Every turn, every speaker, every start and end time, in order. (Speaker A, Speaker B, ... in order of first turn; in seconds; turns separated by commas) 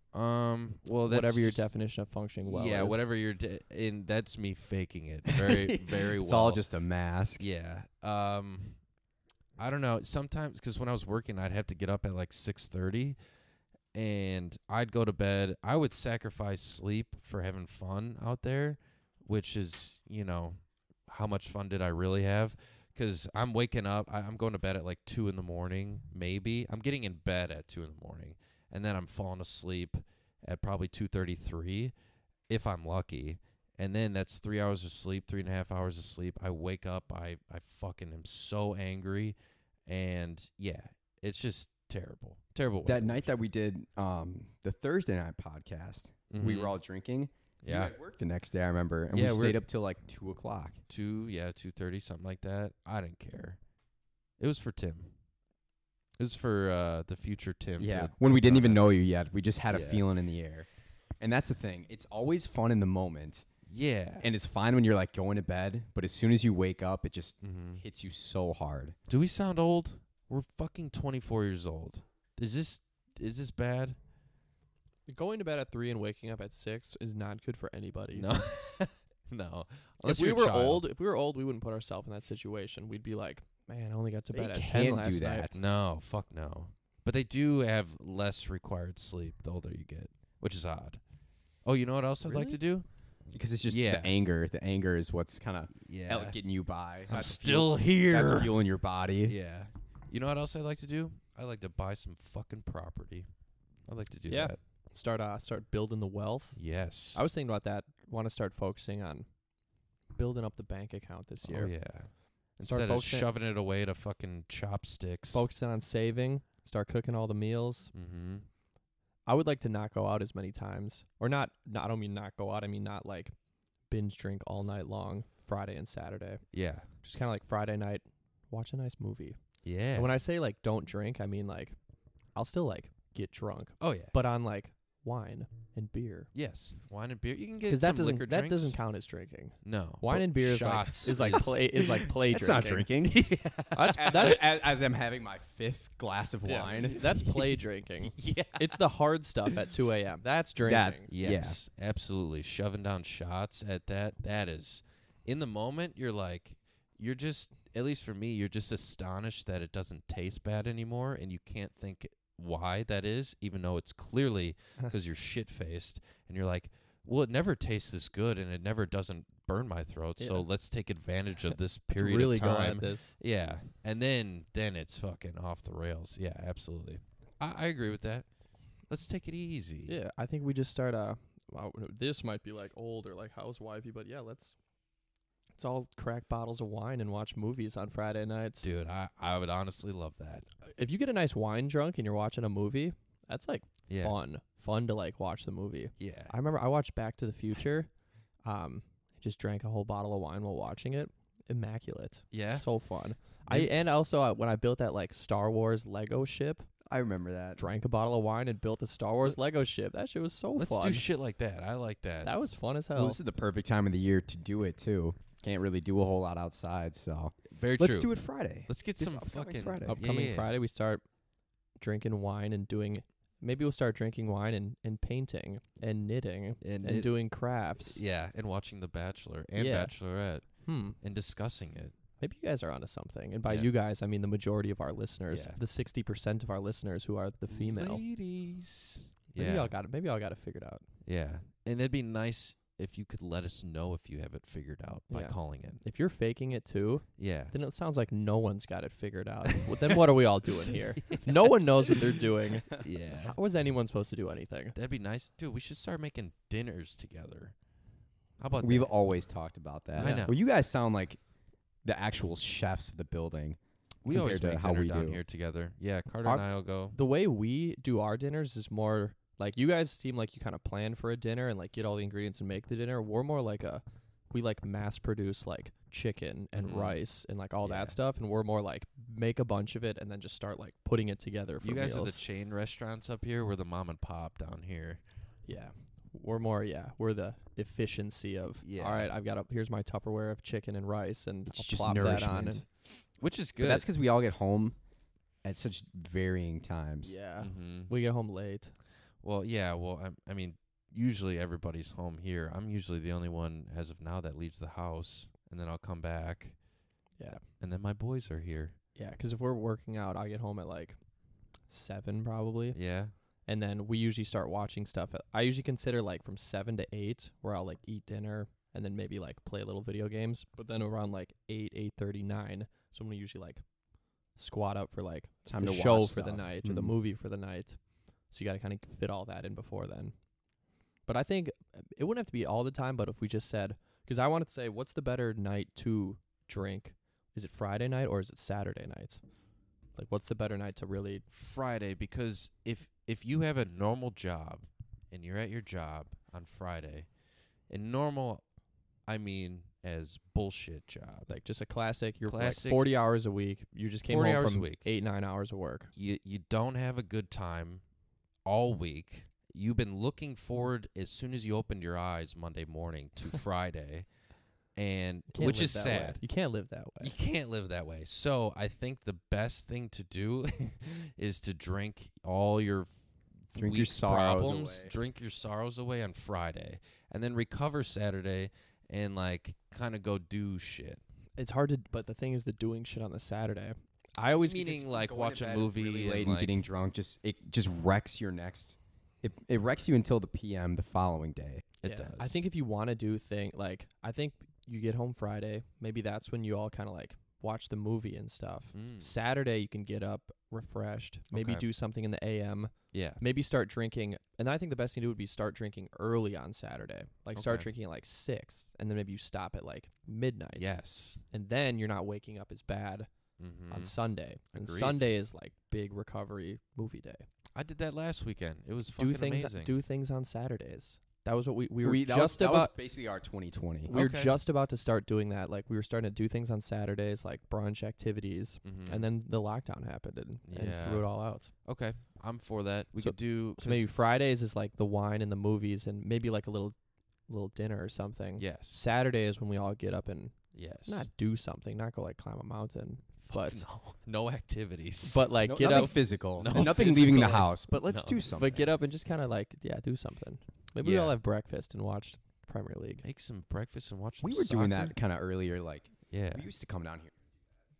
Speaker A: 0.1-1.7, Speaker B: 1.1-3.0, Speaker A: 2.4-6.6, Speaker C: 5.3-7.4, Speaker A: 7.4-8.8, Speaker A: 9.6-13.2, Speaker A: 13.9-31.9, Speaker A: 32.5-39.4, Speaker A: 39.9-43.3, Speaker C: 42.8-50.8, Speaker A: 46.3-46.8, Speaker A: 47.6-47.9, Speaker A: 49.1-49.6, Speaker A: 50.9-53.6, Speaker A: 54.4-55.1, Speaker A: 56.2-58.9, Speaker C: 57.8-60.7, Speaker A: 59.7-60.0, Speaker C: 61.2-63.5, Speaker A: 63.7-64.3, Speaker C: 64.2-69.0, Speaker A: 67.4-67.8, Speaker A: 69.1-74.0, Speaker B: 75.1-78.3, Speaker A: 78.1-80.8, Speaker B: 80.0-85.5, Speaker C: 84.3-85.5, Speaker A: 85.5-91.0, Speaker A: 91.6-92.9, Speaker C: 93.3-99.3, Speaker A: 93.7-94.1, Speaker A: 95.8-96.4, Speaker A: 97.1-98.5, Speaker A: 99.2-103.3, Speaker A: 103.9-104.6, Speaker B: 104.3-106.6, Speaker A: 106.5-107.2, Speaker B: 107.1-109.3, Speaker B: 110.1-111.7, Speaker A: 111.5-115.5, Speaker B: 112.6-113.3, Speaker B: 115.3-117.9, Speaker A: 117.9-118.5, Speaker B: 119.2-123.3, Speaker B: 123.9-126.4, Speaker A: 126.5-126.9, Speaker B: 127.0-129.4, Speaker A: 129.6-130.1, Speaker B: 129.9-131.8, Speaker B: 132.3-136.3, Speaker A: 133.8-134.2, Speaker A: 136.3-138.8, Speaker B: 137.7-142.9, Speaker A: 139.6-142.1, Speaker C: 142.3-143.3, Speaker A: 143.0-144.4, Speaker B: 143.7-144.4, Speaker C: 143.9-147.1, Speaker B: 146.5-151.1, Speaker A: 148.2-148.8, Speaker C: 150.6-151.6, Speaker A: 151.1-178.2, Speaker B: 170.2-170.4, Speaker B: 171.9-173.2, Speaker A: 178.9-179.9, Speaker B: 179.8-184.6, Speaker B: 185.6-188.7, Speaker A: 188.6-190.5, Speaker B: 190.6-197.9, Speaker A: 193.9-194.2, Speaker A: 196.0-196.3, Speaker B: 198.4-206.7, Speaker A: 202.3-202.7, Speaker C: 206.8-207.6, Speaker B: 207.6-211.0, Speaker A: 210.6-212.3, Speaker B: 212.2-213.2, Speaker C: 212.9-220.0, Speaker A: 217.5-218.2, Speaker A: 218.7-220.5, Speaker B: 219.8-221.0, Speaker B: 221.8-228.0, Speaker A: 226.6-227.2, Speaker A: 227.8-231.9, Speaker B: 229.6-229.9, Speaker B: 230.6-231.0, Speaker B: 232.2-238.0, Speaker A: 233.4-233.7, Speaker A: 235.3-235.6, Speaker A: 237.5-239.7, Speaker B: 239.3-240.8, Speaker A: 241.0-245.8, Speaker B: 245.1-254.8, Speaker A: 247.2-247.5, Speaker A: 249.7-250.0, Speaker A: 251.0-252.0, Speaker A: 252.8-253.4, Speaker A: 254.7-257.5, Speaker A: 258.4-259.0, Speaker C: 258.6-261.2, Speaker A: 259.9-260.4, Speaker B: 260.0-260.3, Speaker C: 261.8-265.2, Speaker A: 264.0-267.0, Speaker B: 266.2-282.2, Speaker A: 276.6-277.0, Speaker A: 277.6-277.9, Speaker A: 281.6-285.0, Speaker B: 285.5-292.6, Speaker A: 288.6-289.1, Speaker C: 291.5-292.6, Speaker A: 293.2-293.9, Speaker C: 293.6-294.8, Speaker C: 295.4-297.1, Speaker B: 297.0-298.7, Speaker A: 297.4-297.9, Speaker A: 299.2-306.6, Speaker A: 307.3-308.8, Speaker B: 308.9-311.0, Speaker B: 311.7-312.8, Speaker A: 312.7-313.1, Speaker B: 313.4-323.6, Speaker B: 324.3-330.1, Speaker C: 325.4-326.9, Speaker B: 331.1-339.2, Speaker B: 339.9-341.2, Speaker A: 341.3-347.1, Speaker A: 347.7-348.4, Speaker A: 349.1-351.3, Speaker B: 351.3-355.9, Speaker A: 352.2-352.9, Speaker A: 354.1-354.9, Speaker A: 355.9-357.8, Speaker A: 358.4-364.1, Speaker A: 364.7-366.2, Speaker B: 365.3-367.1, Speaker A: 367.0-372.9, Speaker A: 373.5-381.0, Speaker C: 373.6-374.9, Speaker B: 381.4-384.9, Speaker A: 384.3-386.6, Speaker C: 384.9-391.6, Speaker A: 391.8-392.4, Speaker B: 391.8-410.7, Speaker A: 398.7-399.1, Speaker A: 401.3-401.6, Speaker A: 402.9-403.2, Speaker A: 407.3-407.7, Speaker A: 410.6-411.2, Speaker B: 411.3-413.1, Speaker A: 413.4-413.9, Speaker B: 413.7-417.2, Speaker A: 414.5-415.0, Speaker A: 417.5-419.7, Speaker B: 418.9-422.7, Speaker C: 421.8-423.9, Speaker B: 423.9-431.5, Speaker A: 423.9-424.4, Speaker A: 428.6-429.1, Speaker A: 430.5-433.9, Speaker B: 433.0-436.8, Speaker B: 437.3-443.6, Speaker A: 438.4-438.8, Speaker A: 440.5-441.1, Speaker A: 443.2-448.6, Speaker B: 445.0-446.0, Speaker C: 445.4-448.6, Speaker B: 448.3-453.0, Speaker A: 450.8-451.1, Speaker A: 453.0-454.9, Speaker C: 454.2-457.1, Speaker A: 456.1-456.5